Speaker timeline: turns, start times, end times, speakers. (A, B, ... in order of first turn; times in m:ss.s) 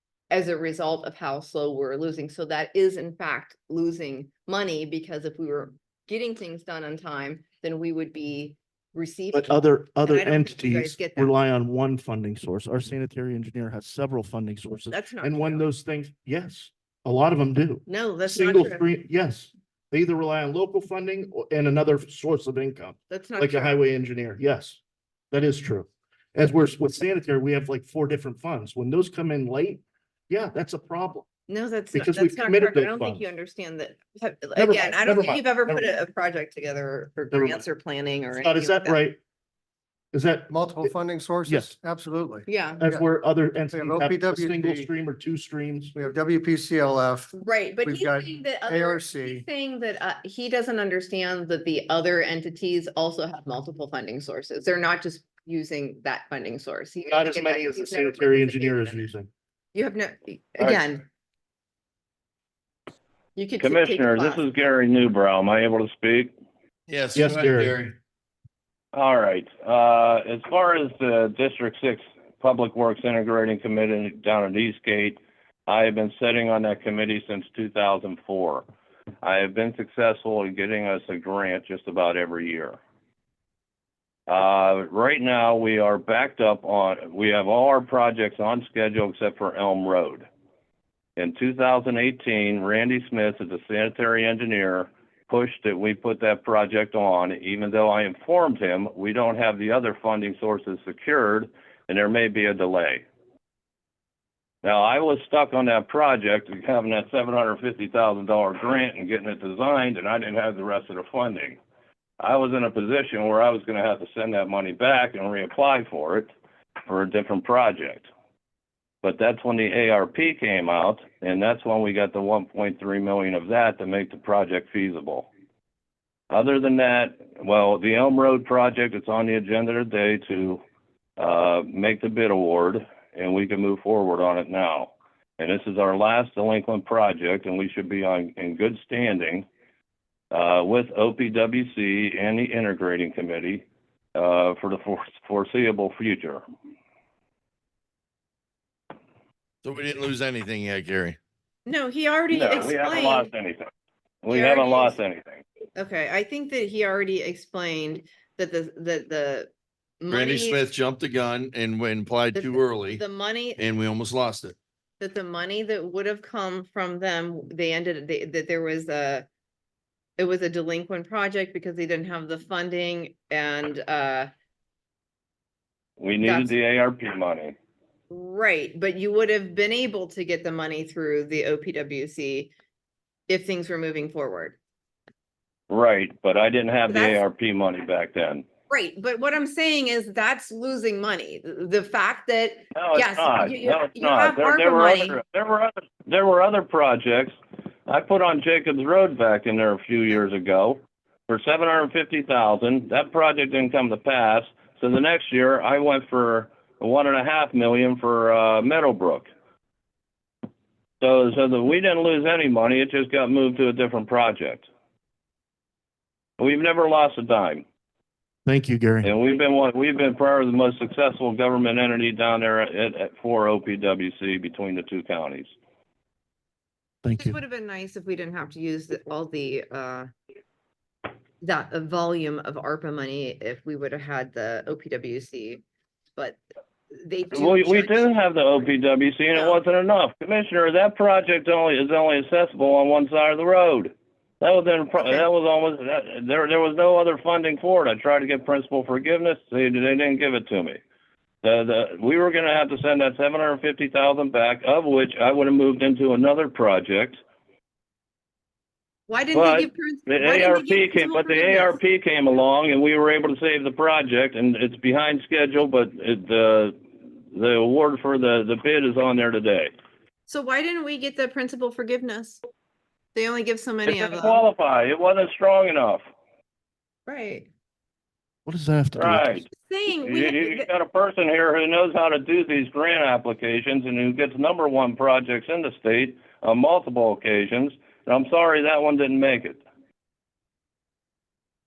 0:00.3-0:11.3 A
0:09.3-0:31.3 B
0:14.9-0:15.7 A
0:17.9-0:18.9 A
0:23.1-0:23.8 A
0:31.5-0:39.0 A
0:31.9-0:33.2 B
0:34.6-0:35.9 B
0:37.3-0:37.6 B
0:38.4-0:39.2 B
0:40.1-0:41.8 B
0:40.5-0:43.0 C
0:42.5-0:42.8 A
0:42.8-0:46.0 B
0:43.7-0:44.9 C
0:46.0-0:47.3 C
0:47.4-0:59.0 A
0:47.8-0:49.4 C
0:57.0-0:59.3 B
0:59.7-1:01.0 A
1:03.4-1:04.7 A
1:03.6-1:06.3 D
1:06.9-1:07.9 E
1:07.2-1:07.8 B
1:08.9-1:18.7 D
1:19.2-1:22.8 D
1:24.3-1:30.3 D
1:31.2-1:43.0 D
1:44.6-1:51.6 D
1:52.2-1:56.3 D
1:56.9-1:58.1 D
1:59.0-2:05.3 D
2:06.3-2:10.6 D
2:11.2-2:19.5 D
2:20.3-2:26.4 D
2:29.6-2:31.2 E
2:31.7-2:33.3 A
2:32.3-2:33.7 D
2:34.2-2:35.4 D
2:34.3-2:35.0 A
2:35.8-2:40.7 A
2:40.1-2:43.0 E
2:42.3-2:43.6 A
2:43.6-2:44.6 E
2:45.0-2:49.3 A
2:50.2-2:54.3 A
2:56.0-2:57.6 D
2:56.2-2:56.6 A
2:58.1-3:02.5 A
3:03.3-3:04.6 A
3:05.7-3:08.4 D
3:06.9-3:07.2 A
3:08.7-3:15.2 A
3:12.8-3:17.4 D
3:17.9-3:29.3 D
3:31.0-3:34.7 D
3:36.4-3:37.6 D
3:38.5-3:39.1 B
3:39.0-3:45.5 D
3:47.0-3:47.4 B
3:47.2-3:50.1 A
3:51.4-3:55.6 A
3:57.0-3:58.1 A
3:57.3-4:10.8 D
3:59.3-3:59.6 A
4:05.0-4:05.2 A
4:11.4-4:17.2 D
4:19.1-4:21.8 A
4:19.3-4:26.8 D
4:27.3-4:29.7 D
4:30.3-4:32.4 A
4:33.1-4:34.4 A
4:33.8-4:36.0 D
4:37.1-4:37.5 A
4:38.5-4:39.4 B
4:39.0-4:39.5 D
4:39.5-4:40.7 A
4:40.0-4:49.6 D